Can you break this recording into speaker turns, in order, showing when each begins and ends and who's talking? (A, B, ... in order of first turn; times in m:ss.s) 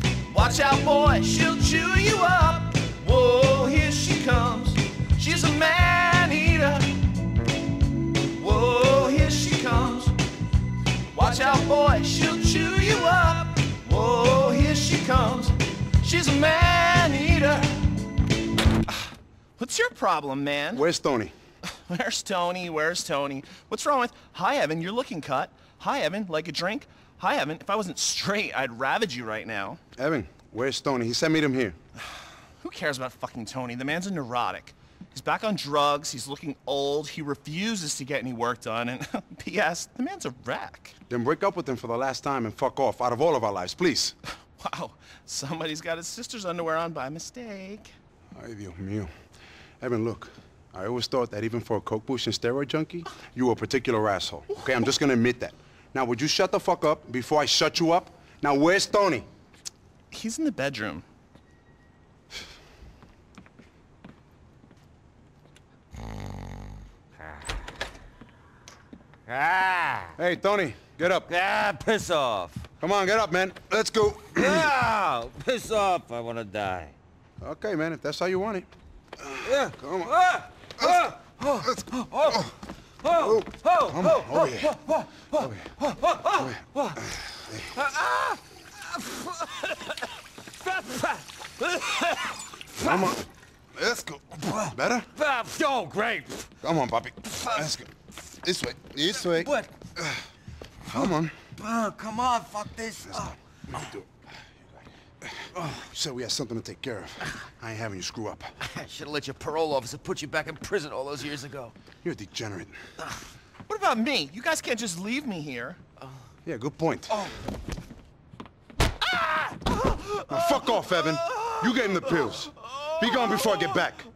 0:00.3-0:07.0 A
0:08.2-0:10.2 A
0:11.1-0:17.9 A
0:18.9-0:20.9 A
0:20.7-0:21.3 B
0:21.7-0:29.8 A
0:30.0-0:31.8 B
0:32.6-0:41.0 A
0:41.1-0:44.2 B
0:44.6-0:47.9 A
0:48.4-0:49.1 B
0:49.8-0:59.3 B
1:00.1-1:01.0 A
1:09.3-1:10.1 C
1:10.2-1:11.3 B
1:11.3-1:12.6 C
1:12.8-1:14.7 B
1:14.3-1:16.9 C
1:17.4-1:18.7 B
1:19.2-1:20.2 B
1:19.4-1:33.2 C
1:20.8-1:21.0 B
1:21.6-1:22.5 B
1:23.2-1:24.8 B
1:25.3-1:25.7 B
1:26.4-1:27.7 B
1:32.8-1:35.1 B
1:34.4-1:36.5 C
1:36.6-1:40.2 B
1:37.4-1:37.7 C
1:39.2-1:39.7 C
1:40.9-1:43.4 C
1:40.9-1:41.4 B
1:43.1-1:44.2 B
1:45.3-1:48.6 B
1:48.6-1:51.7 C
1:52.0-1:52.8 B
1:53.7-1:55.8 A
1:56.5-1:57.3 B
1:57.1-1:57.4 C
1:59.1-2:02.3 C
2:00.1-2:04.0 B
2:03.1-2:03.8 C